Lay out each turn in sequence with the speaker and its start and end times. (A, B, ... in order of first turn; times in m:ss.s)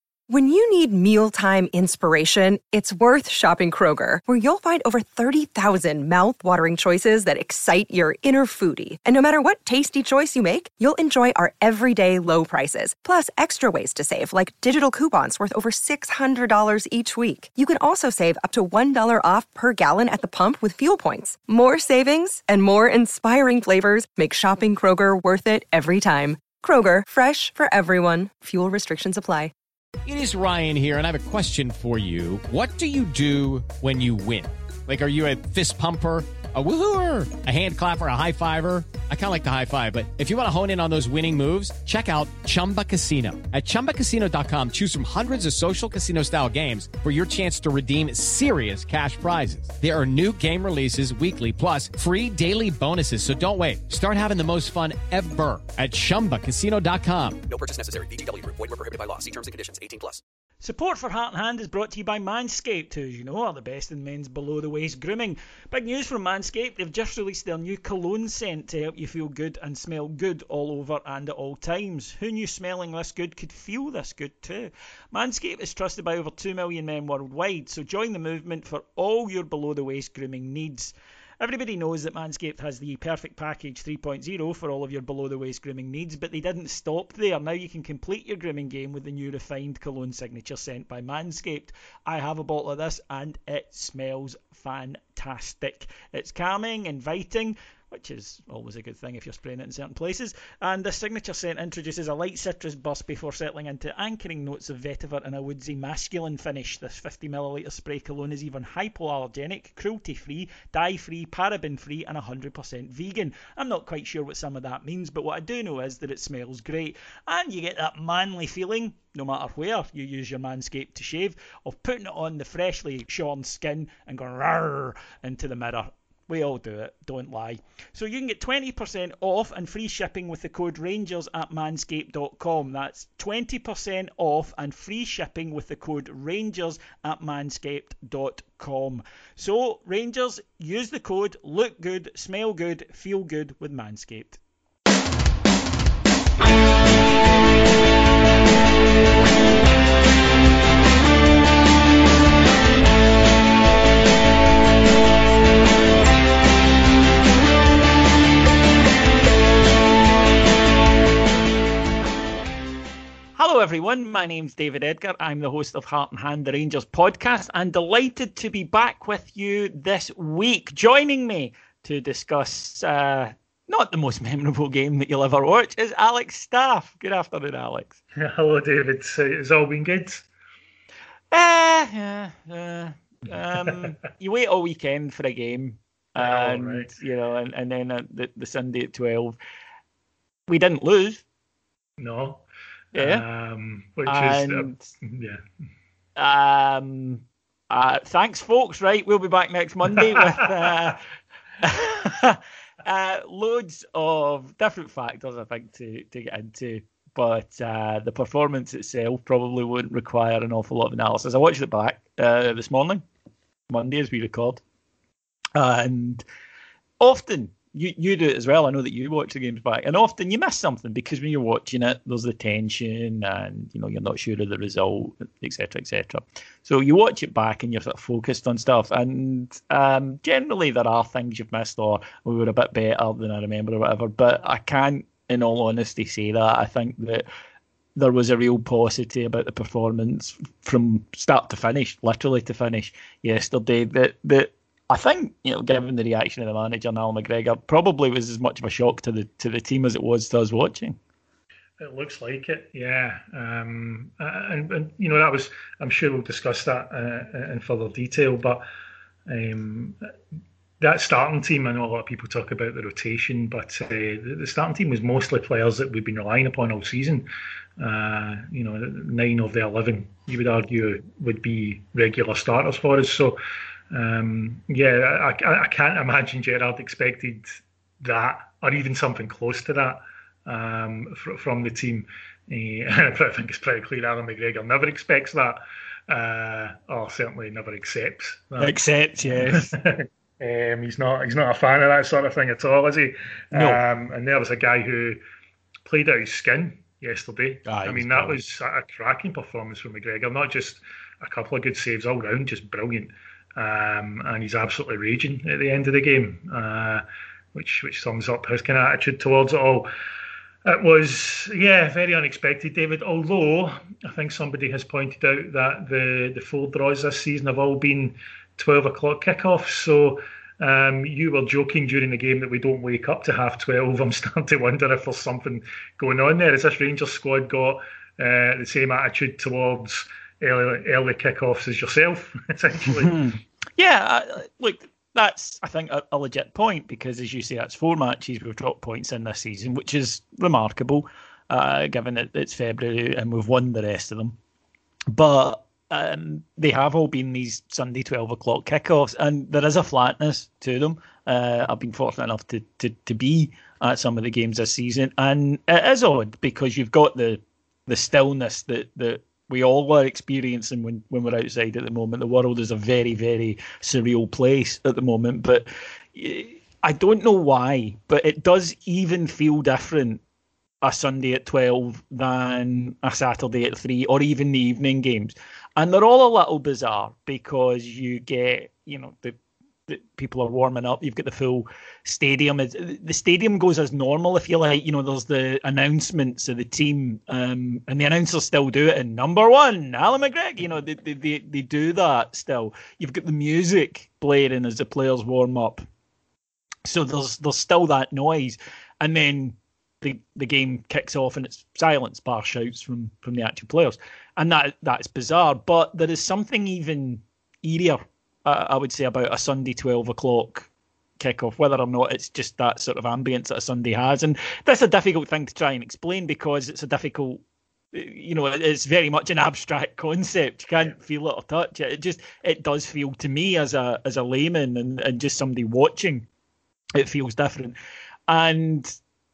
0:00.3-0:29.5 A
0:30.0-0:57.4 B
0:57.5-1:00.2 C
1:00.6-2:24.4 D
2:43.4-2:58.0 D
2:58.2-3:00.3 E
3:01.3-3:09.4 D
3:06.2-3:06.9 E
3:10.5-3:11.2 D
3:12.0-3:15.4 E
3:13.0-3:13.2 D
3:14.1-3:14.9 D
3:16.2-3:21.0 D
3:21.6-3:33.0 D
3:33.7-3:34.6 D
3:35.6-3:36.2 D
3:37.0-3:57.3 D
3:58.0-4:11.0 D
4:11.8-4:18.6 E
4:19.3-4:20.0 E
4:20.8-4:33.4 E
4:33.9-4:55.2 E
4:48.6-4:49.7 D
4:53.5-4:53.8 D
4:55.9-5:09.9 E
4:57.7-4:58.4 D
5:10.6-5:33.3 E
5:32.9-5:44.4 D
5:45.1-6:10.2 D
6:10.8-6:19.4 D
6:19.9-6:35.8 D
6:36.8-6:50.7 D
6:51.2-6:57.4 D
6:57.9-7:06.3 D
7:07.0-7:07.8 D
7:08.3-7:09.0 D